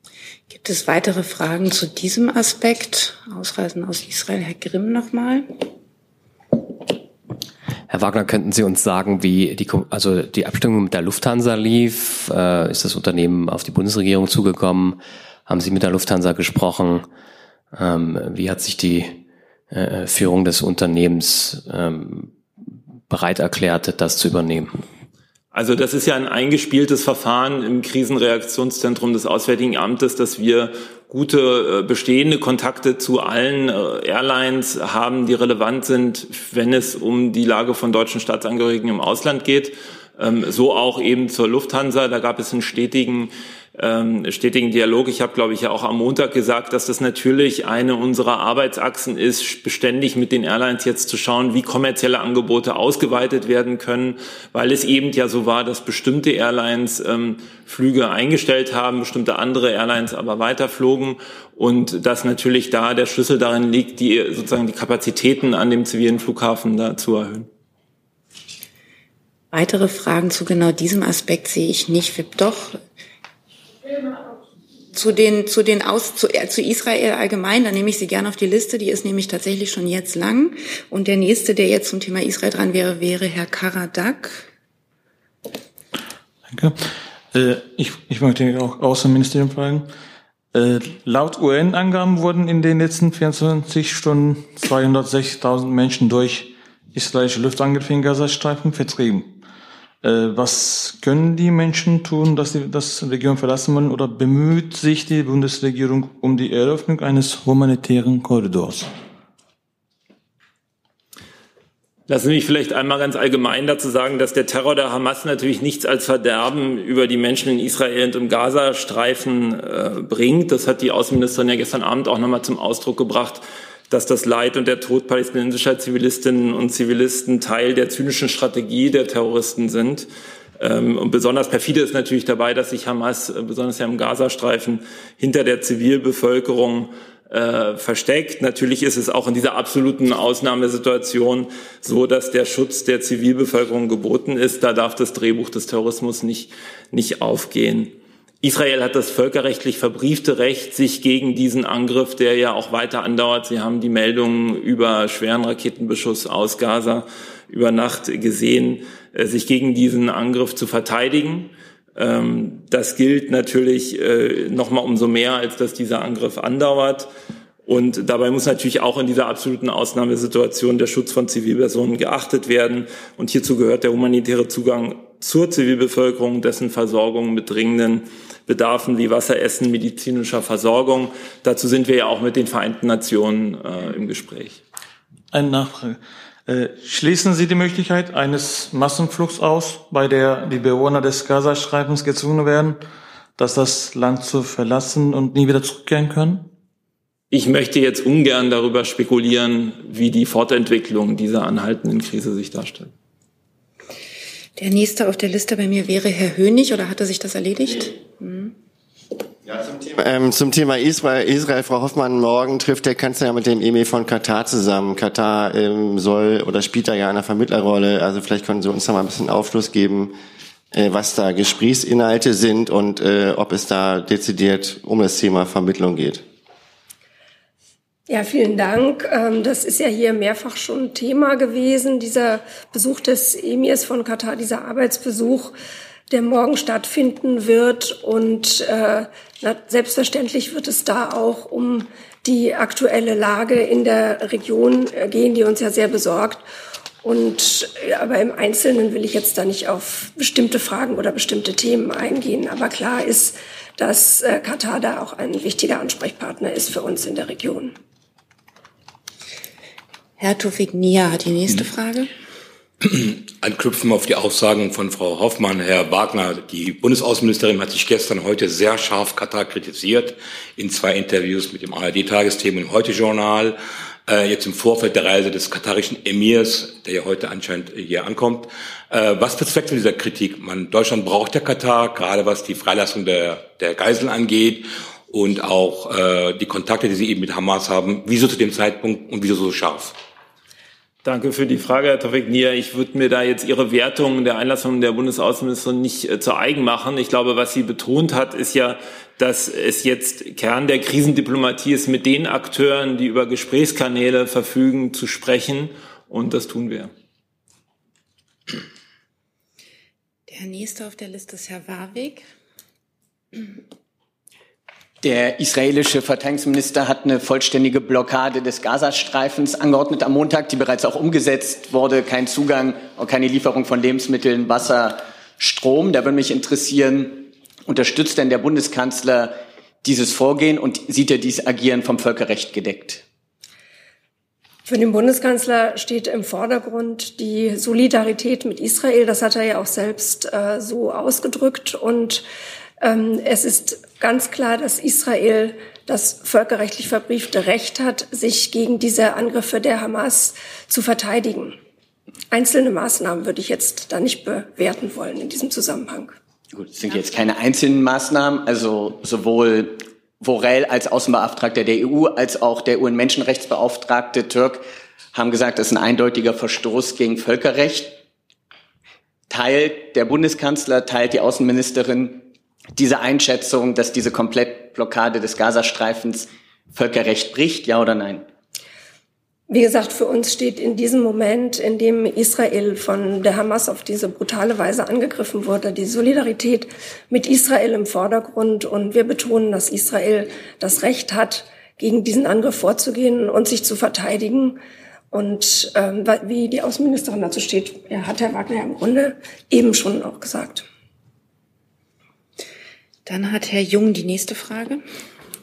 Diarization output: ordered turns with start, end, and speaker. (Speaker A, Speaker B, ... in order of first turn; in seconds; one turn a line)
Speaker A: 0.5-5.5
Speaker B: 7.9-17.1
Speaker B: 17.7-22.4
Speaker B: 23.1-24.8
Speaker C: 25.5-67.5
Speaker A: 69.5-72.8
Speaker A: 74.9-84.5
Speaker D: 86.5-89.9
Speaker D: 90.5-99.3
Speaker D: 100.0-108.9
Speaker C: 112.1-130.1
Speaker C: 130.6-167.1
Speaker C: 167.7-184.6
Speaker D: 185.3-192.8
Speaker D: 193.4-196.5
Speaker C: 197.3-202.9
Speaker A: 204.6-208.5
Speaker E: 209.4-220.1
Speaker E: 220.7-226.2
Speaker F: 228.1-235.5
Speaker F: 236.1-246.4
Speaker F: 247.0-257.7
Speaker A: 260.2-262.1
Speaker G: 262.8-273.6
Speaker G: 274.1-289.9
Speaker C: 291.0-306.9
Speaker A: 310.3-312.2
Speaker H: 315.0-333.0
Speaker F: 334.6-342.2
Speaker F: 342.8-351.6
Speaker F: 352.3-356.1
Speaker H: 356.5-367.9
Speaker H: 369.3-372.2
Speaker H: 372.8-378.2
Speaker F: 379.5-394.6
Speaker F: 395.1-400.6
Speaker A: 403.1-404.8